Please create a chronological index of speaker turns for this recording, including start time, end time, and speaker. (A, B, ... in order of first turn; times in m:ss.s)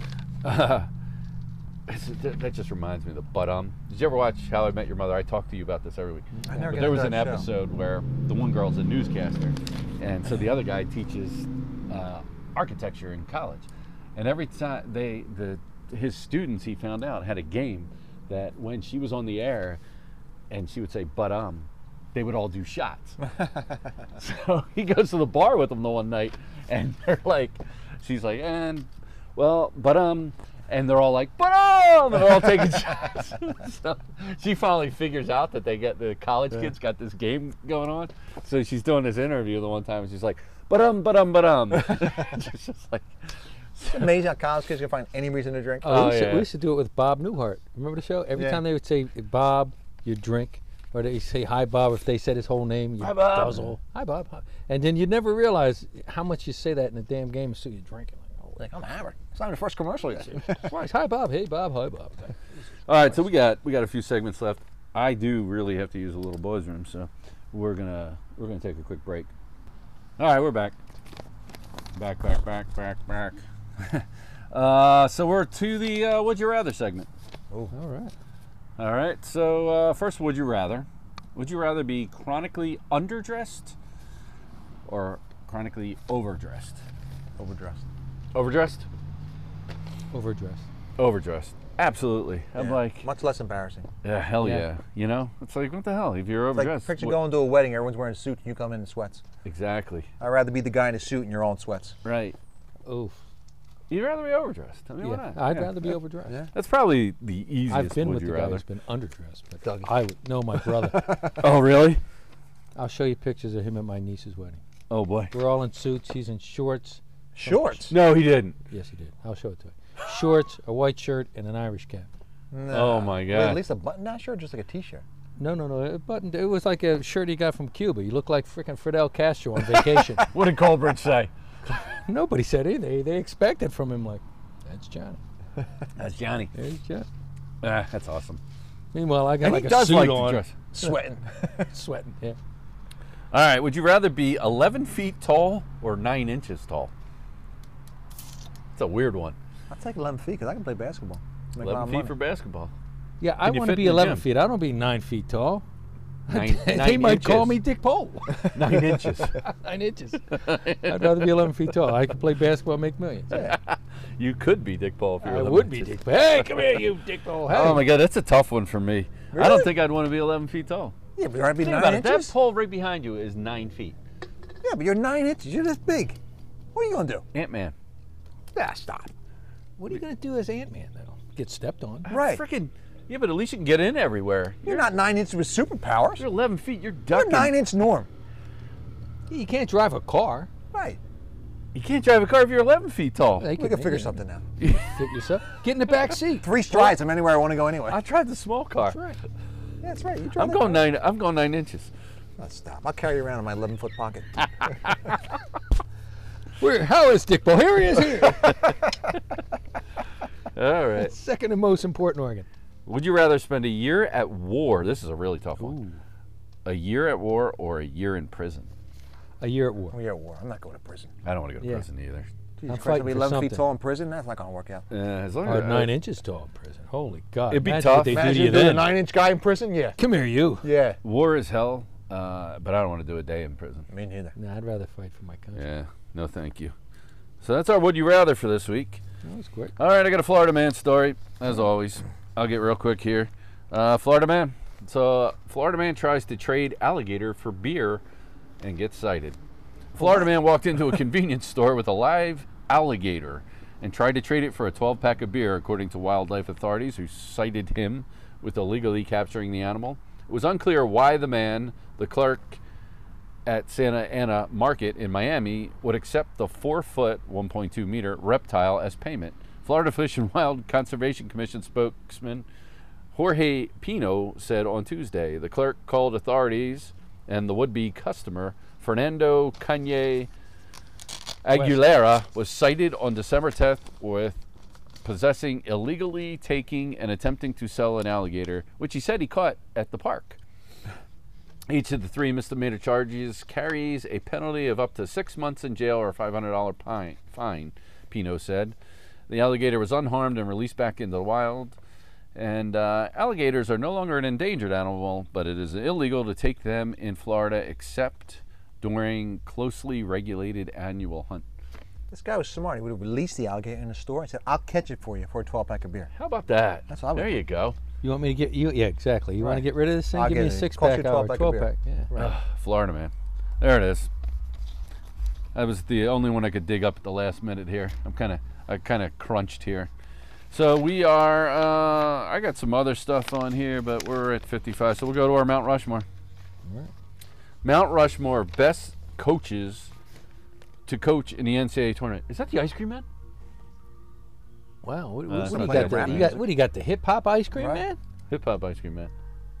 0:00.4-0:00.9 A
0:01.9-0:19.8 A
0:06.4-0:06.8 B
0:06.5-0:07.5 C
0:20.5-0:23.2 A
0:24.2-0:44.1 A
0:43.9-0:46.2 C
0:45.8-0:58.3 B
0:45.8-0:46.5 A
0:48.3-0:48.6 C
0:53.0-0:53.7 A
0:58.4-1:00.7 C
1:00.5-1:02.4 B
1:02.9-1:09.3 A
1:10.2-1:10.8 A
1:12.0-1:17.1 A
1:17.7-1:18.1 B
1:18.8-1:23.8 A
1:24.8-1:26.8 A
1:27.4-1:27.8 C
1:28.3-1:28.9 A
1:30.1-1:30.6 B
1:31.0-1:33.1 A
1:32.6-1:33.9 C
1:34.0-1:37.2 A
1:34.4-1:34.7 B
1:36.5-1:39.2 C
1:39.4-1:40.1 A
1:40.2-1:42.0 C
1:42.0-1:42.4 A
1:42.8-1:43.2 B
1:43.9-1:45.6 A
1:45.0-1:46.4 B
1:46.5-1:48.6 A
1:47.7-1:51.3 B
1:49.6-1:49.9 C
1:50.7-1:51.4 C
1:51.3-1:52.0 A
1:52.7-1:54.6 B
1:54.9-1:55.3 A
1:55.3-1:57.9 B
1:57.3-1:57.9 C
1:57.9-1:58.6 A
1:58.7-2:02.1 B
2:02.5-2:05.0 C
2:02.7-2:03.6 A
2:05.4-2:10.3 B
2:10.2-2:11.3 A
2:11.7-2:15.2 B
2:16.0-2:16.5 A
2:16.5-2:17.1 B
2:17.6-2:18.4 A
2:18.9-2:22.4 B
2:19.4-2:20.5 A
2:20.7-2:21.7 C
2:23.3-2:26.9 A
2:28.7-2:29.4 A
2:29.7-2:32.1 C
2:31.6-2:32.7 A
2:33.2-2:35.6 B
2:33.4-2:34.2 A
2:36.3-2:38.6 B
2:36.3-2:37.6 A
2:38.5-2:39.5 A
2:39.4-2:43.4 B
2:40.3-2:41.5 A
2:43.3-2:46.6 A
2:45.2-2:47.9 B
2:47.5-2:50.9 A
2:49.3-2:49.7 C
2:51.2-2:52.3 C
2:51.6-2:54.0 A
2:54.6-2:56.2 C
2:56.7-2:57.2 C
2:57.3-2:57.7 A
2:58.5-2:59.1 C
2:59.8-3:02.1 B
3:02.0-3:04.9 A
3:02.1-3:02.4 C
3:04.6-3:06.2 C
3:06.2-3:07.6 A
3:07.1-3:08.1 C
3:09.3-3:10.5 B
3:10.7-3:11.0 C
3:11.7-3:13.5 A
3:13.4-3:14.2 B
3:13.5-3:14.4 C
3:14.6-3:15.0 A
3:14.8-3:16.8 B
3:16.4-3:18.0 C
3:17.9-3:19.0 A
3:18.8-3:19.2 B
3:19.8-3:20.9 C
3:20.4-3:21.9 A
3:22.4-3:24.5 C
3:26.6-3:28.7 B
3:30.5-3:31.1 A
3:30.9-3:32.5 B
3:32.8-3:35.8 A
3:35.6-3:36.0 B
3:36.6-3:38.7 A
3:39.4-3:40.0 B
3:39.9-3:41.1 C
3:41.2-3:42.3 A
3:41.6-3:41.8 B
3:42.6-3:44.8 C
3:42.7-3:43.6 B
3:44.9-3:45.9 A
3:45.4-3:49.0 B
3:47.5-3:48.3 A
3:48.0-3:50.0 C
3:50.0-3:50.7 B
3:50.6-3:51.0 C
3:51.0-3:53.9 A
3:53.9-3:54.3 C
3:54.4-3:55.6 B
3:55.5-3:56.7 A
3:57.4-3:59.0 A
3:59.2-3:59.7 B
3:59.8-4:08.0 A
4:08.6-4:09.4 A
4:09.9-4:22.6 A
4:23.4-4:32.4 A
4:33.1-4:40.3 A
4:41.4-4:44.4 A
4:41.5-4:41.8 B
4:45.0-4:50.4 A
4:51.7-4:58.8 A
4:59.3-5:01.8 A
5:02.3-5:11.4 A
5:12.1-5:16.1 C
5:16.1-5:17.8 A
5:16.9-5:17.4 C
5:18.0-5:22.1 B
5:19.4-5:22.4 C
5:22.1-5:24.1 A
5:25.5-5:29.9 A
5:30.5-5:36.0 A
5:36.6-5:36.9 B
5:37.6-5:39.9 A
5:40.9-5:43.1 A
5:44.8-5:48.0 B
5:45.3-5:46.4 A
5:45.4-5:46.5 C
5:47.5-5:47.8 C
5:48.3-5:49.1 A